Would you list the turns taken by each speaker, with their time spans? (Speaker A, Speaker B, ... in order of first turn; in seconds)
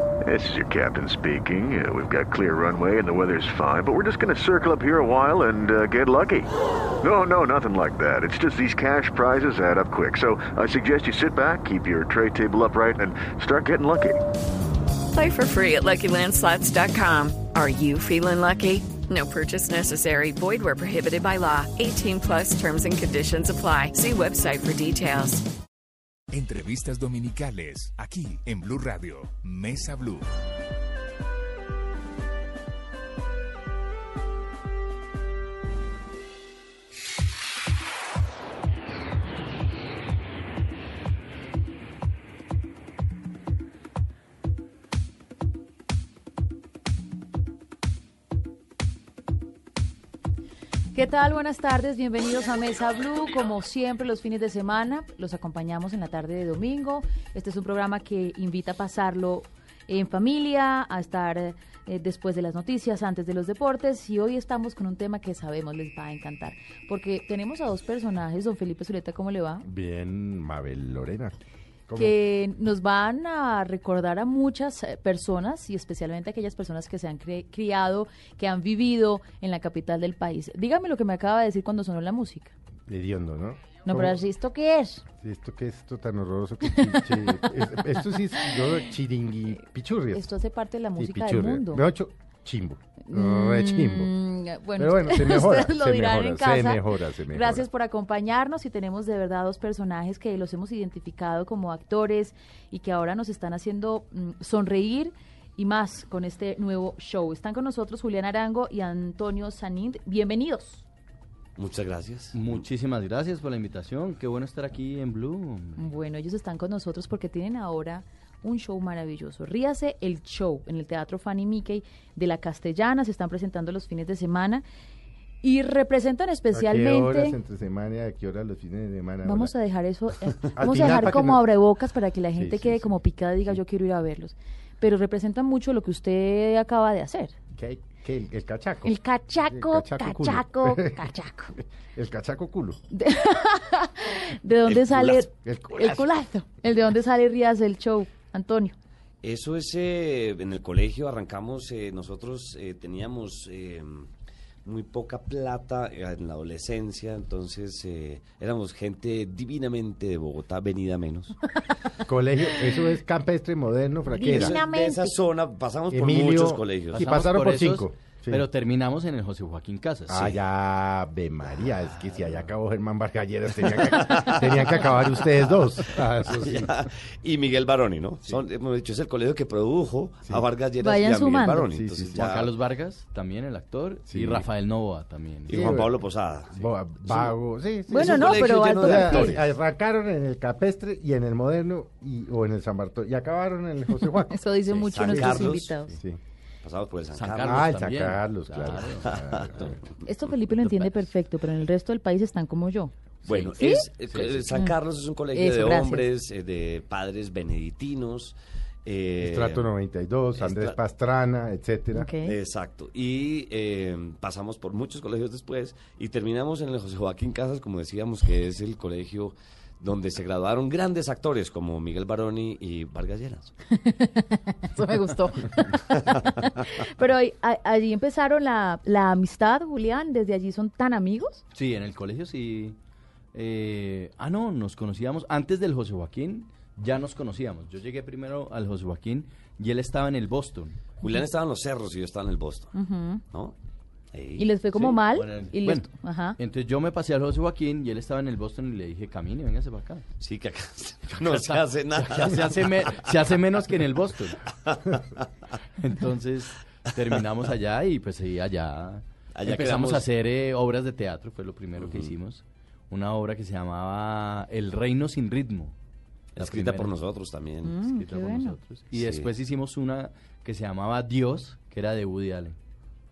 Speaker A: 0.2-6.5, 7.0-14.2
Speaker B: 15.1-25.5
Speaker C: 26.3-30.3
Speaker D: 50.9-69.6, 72.0-82.5, 83.9-85.0, 86.7-87.4, 88.4-88.7, 90.1-91.8, 93.1-110.8, 115.8-124.6, 125.4-127.4, 129.2-137.3, 138.8-141.6, 142.9-148.7, 164.1-165.1, 180.8-181.7, 187.9-189.3, 194.1-196.0, 200.0-203.8, 205.3-206.0, 211.9-212.3, 223.7-231.4, 242.7-243.2, 244.4-246.4, 267.6-268.6
Speaker E: 69.6-71.3, 71.9-72.1, 82.9-84.2, 85.2-90.3, 91.0-94.1, 94.8-97.7, 126.5-129.5, 130.4-131.4, 132.3-133.0, 137.5-138.9, 139.4-141.0, 141.9-142.8, 145.4-146.1, 162.1-164.6, 165.9-168.4, 170.1-176.7, 181.7-182.3, 184.1-184.4, 185.5-186.0, 186.5-194.4, 195.0-196.2, 197.4-199.8, 209.2-212.1
Speaker F: 111.5-112.6, 144.6-145.2, 149.2-154.1, 154.6-161.3, 164.2-167.1, 170.1-170.4, 173.9-174.8, 176.3-182.5, 185.5-186.5, 187.9-189.4, 194.7-195.7, 196.6-197.7, 199.1-199.7, 203.2-208.3, 208.8-209.7, 210.4-210.8, 212.2-223.5, 241.0-242.7, 244.1-244.9, 250.2-253.1, 254.7-255.2, 259.3-260.1, 261.8-262.1, 266.3-267.8, 268.9-269.3
Speaker G: 112.3-115.8, 166.9-170.3, 182.1-185.8, 197.1-199.2, 204.1-204.5, 231.5-232.8, 233.3-240.8, 244.7-245.9, 246.4-250.0, 251.1-254.4, 255.8-265.7, 266.4-266.9, 267.8-272.6